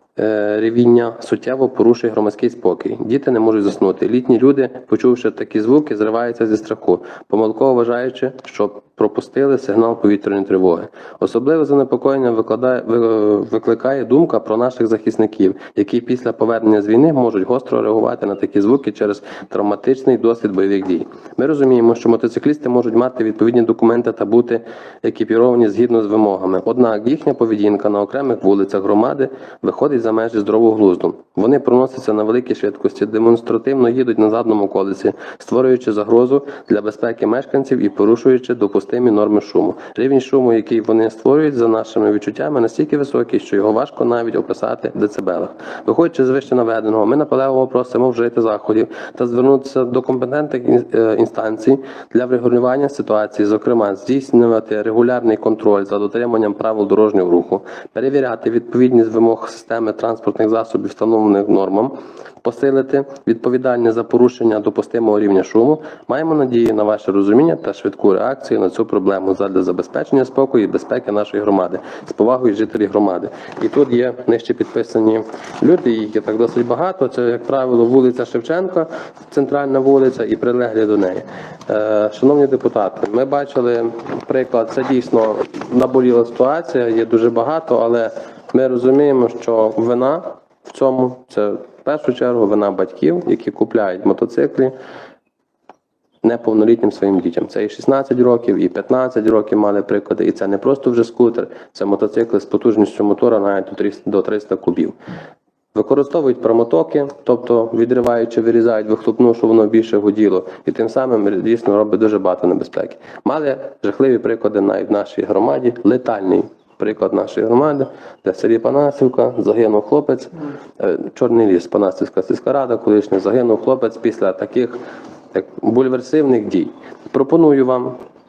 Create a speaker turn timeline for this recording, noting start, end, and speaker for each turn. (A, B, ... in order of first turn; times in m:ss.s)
0:00.2-1:34.7 A
1:36.2-1:44.9 A
1:45.7-2:04.8 A
2:05.3-2:08.0 A